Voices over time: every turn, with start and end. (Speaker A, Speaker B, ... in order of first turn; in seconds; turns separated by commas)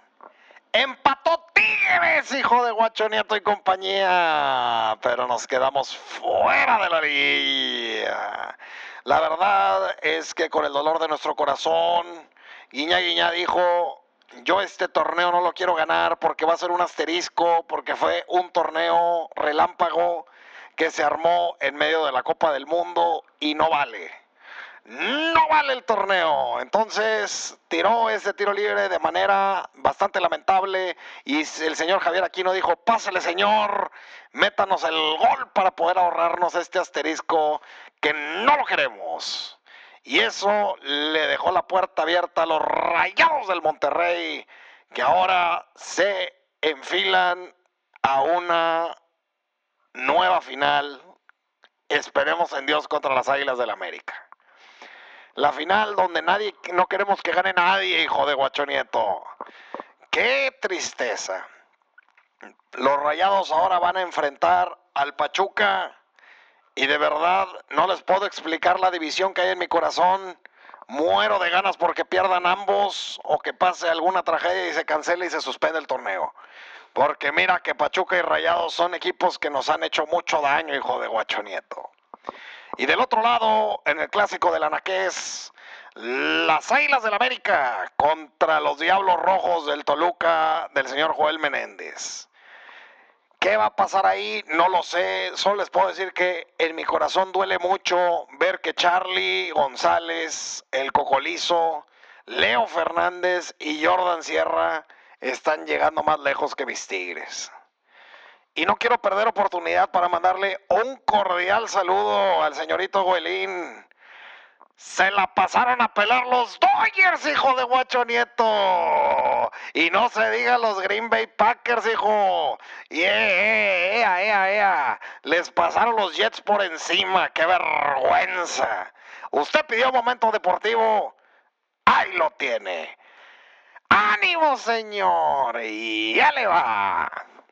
Speaker A: 0.7-24.1, Speaker A: 24.9-47.5, Speaker A: 48.0-49.0, Speaker A: 49.9-51.0, Speaker A: 51.9-54.2, Speaker A: 55.4-59.3, Speaker A: 60.1-61.5, Speaker A: 62.7-65.9, Speaker A: 66.8-76.3, Speaker A: 77.0-81.9, Speaker A: 82.8-92.3, Speaker A: 93.4-107.5, Speaker A: 108.6-113.8, Speaker A: 114.8-131.2, Speaker A: 131.9-132.9, Speaker A: 133.9-137.2